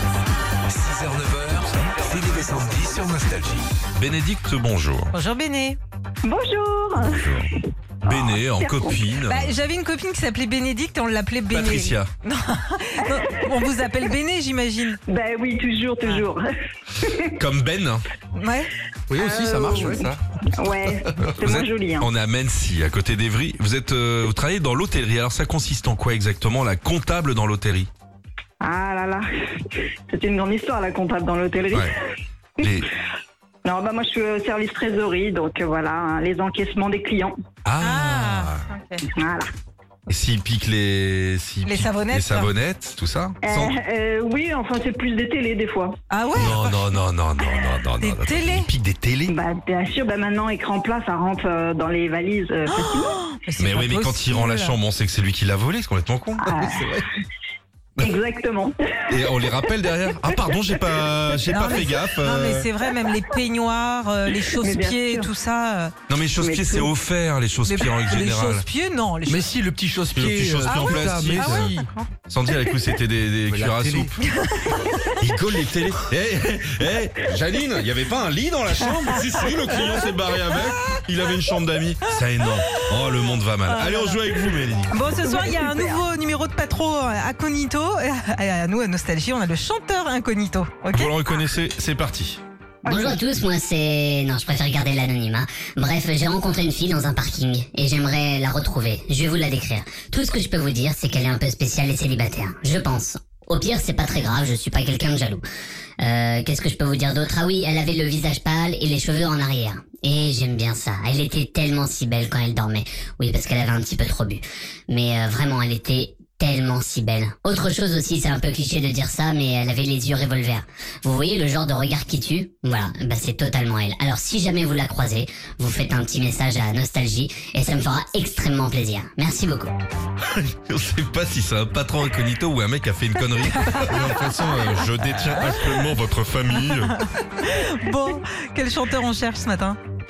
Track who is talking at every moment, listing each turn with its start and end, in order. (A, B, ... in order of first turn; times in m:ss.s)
0:00.7-0:03.7 A
0:03.9-0:05.1 B
0:05.1-0:05.8 C
0:06.2-0:07.5 D
0:07.0-0:07.5 B
0:08.0-0:09.0 D
0:08.1-0:09.5 B
0:09.2-0:15.0 C
0:11.5-0:12.1 B
0:15.1-0:16.4 D
0:17.0-0:17.3 D
0:17.3-0:18.0 B
0:18.3-0:18.7 C
0:19.1-0:20.1 E
0:19.1-0:22.1 D
0:19.8-0:20.2 B
0:21.4-0:27.9 B
0:28.6-0:31.9 D
0:32.6-0:32.9 B
0:33.6-0:37.3 D
0:37.6-0:38.6 B
0:37.8-0:39.0 C
0:39.1-0:39.5 D
0:40.1-0:43.7 B
0:41.6-0:42.5 C
0:43.4-0:46.0 D
0:46.1-0:46.9 C
0:46.3-0:49.3 B
0:48.0-0:48.7 C
0:49.3-0:53.2 D
0:52.7-0:54.7 C
0:53.6-0:57.1 B
0:56.4-0:57.0 D
0:58.0-0:58.7 D
0:59.1-1:02.7 B
1:01.5-1:05.9 C
1:04.6-1:05.3 D
1:06.1-1:08.6 B
1:06.4-1:06.9 D
1:07.6-1:09.5 C
1:09.3-1:11.9 E
1:10.1-1:11.7 B
1:10.6-1:12.1 C
1:12.3-1:14.2 B
1:13.5-1:14.1 A
1:14.2-1:15.1 C
1:15.2-1:25.2 B
1:23.6-1:24.2 C
1:24.9-1:31.1 C
1:25.2-1:26.0 D
1:30.9-1:32.4 B
1:32.8-1:33.2 D
1:32.8-1:45.4 F
1:46.0-2:09.7 F
2:10.2-2:17.0 B
2:17.0-2:19.8 C